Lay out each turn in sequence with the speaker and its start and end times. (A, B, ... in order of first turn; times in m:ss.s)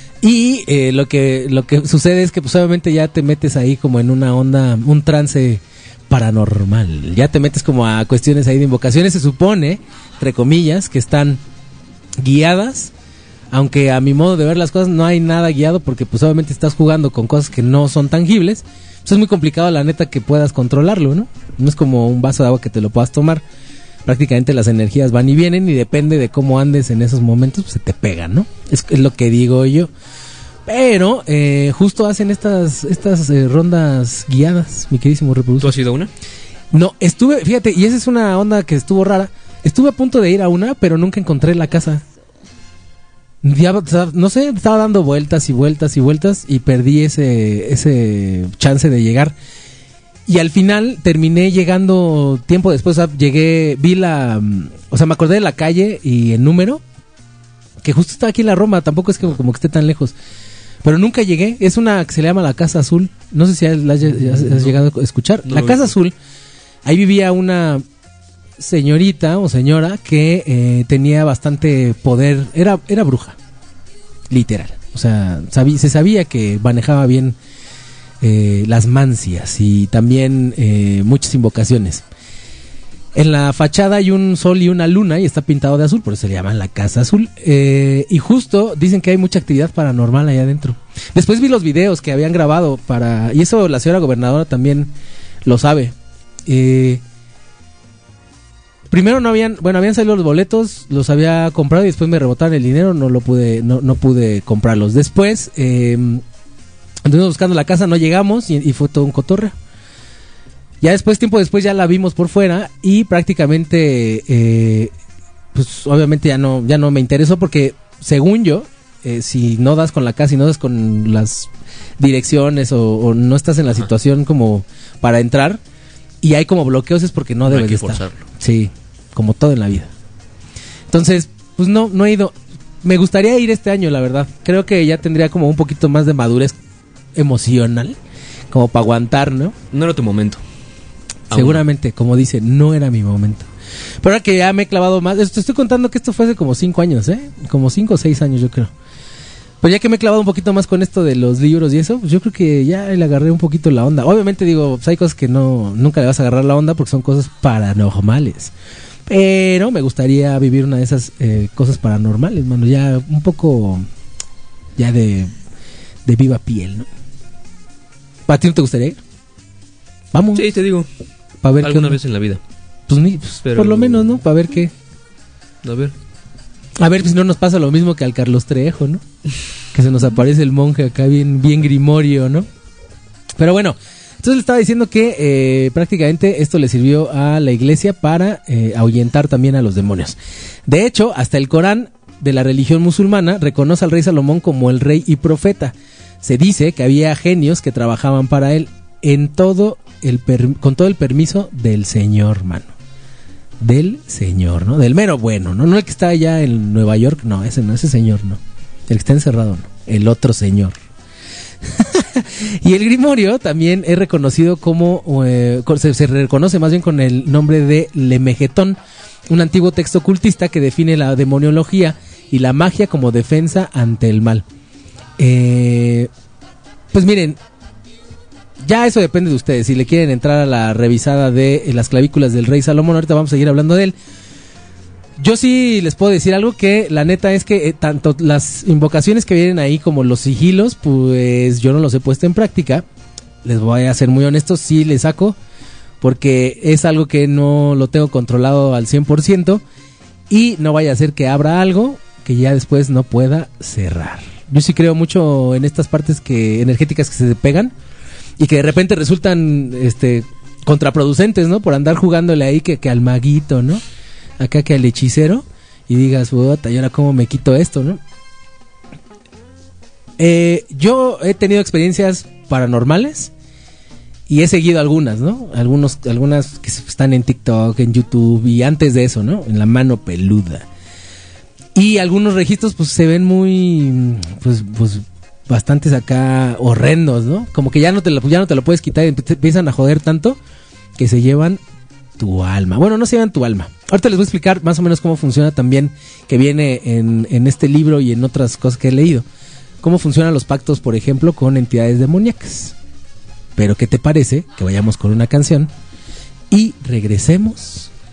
0:00.2-0:11.4 A
0:12.2-0:12.9 A
0:13.5-0:23.4 A
0:24.1-0:29.9 A
0:30.7-0:35.8 A
0:35.6-0:36.1 B
0:36.7-0:42.0 A
0:43.4-0:49.4 A
0:50.3-0:56.8 A
0:57.8-1:00.2 A
1:00.8-1:06.2 A
1:05.5-1:05.9 B
1:06.8-1:07.8 A
1:08.6-1:13.4 A
1:14.3-1:17.4 A
1:18.2-1:22.0 A
1:23.2-1:34.9 A
1:35.4-1:35.9 A
1:36.5-1:37.0 A
1:38.9-1:46.2 A
1:47.0-1:49.5 A
1:50.8-1:54.9 A
1:55.5-2:05.6 A
2:06.2-2:09.9 A
2:07.5-2:08.2 B
2:10.9-2:16.6 A
2:17.2-2:18.0 A
2:18.5-2:19.6 A
2:19.7-2:20.4 B
2:21.3-2:21.6 B
2:21.3-2:23.5 A
2:24.0-2:28.7 A
2:29.6-2:38.5 A
2:39.1-2:43.9 A
2:44.8-2:45.3 A
2:46.0-2:46.9 A
2:48.3-2:49.0 A
2:50.1-2:50.5 A
2:50.4-2:50.9 B
2:51.4-2:52.0 A
2:51.6-2:52.4 B
2:52.9-2:54.7 A
2:53.4-2:54.2 B
2:55.6-2:55.9 B
2:56.8-2:59.0 A
2:59.7-3:02.5 A
3:03.4-3:10.2 A
3:10.7-3:22.7 A
3:23.6-3:30.8 A
3:31.6-3:44.5 A
3:45.2-3:46.1 A
3:46.9-3:47.4 A
3:48.6-3:54.0 A
3:55.2-4:02.8 A
4:03.4-4:05.4 A
4:06.0-4:09.6 A
4:10.3-4:17.7 A
4:18.4-4:23.8 A
4:24.4-4:28.0 A
4:30.2-4:33.3 A
4:34.3-4:40.7 A
4:41.8-4:50.4 A
4:51.0-4:51.6 A
4:52.2-4:59.3 A
4:59.8-5:02.8 A
5:03.6-5:05.7 A
5:06.5-5:07.9 A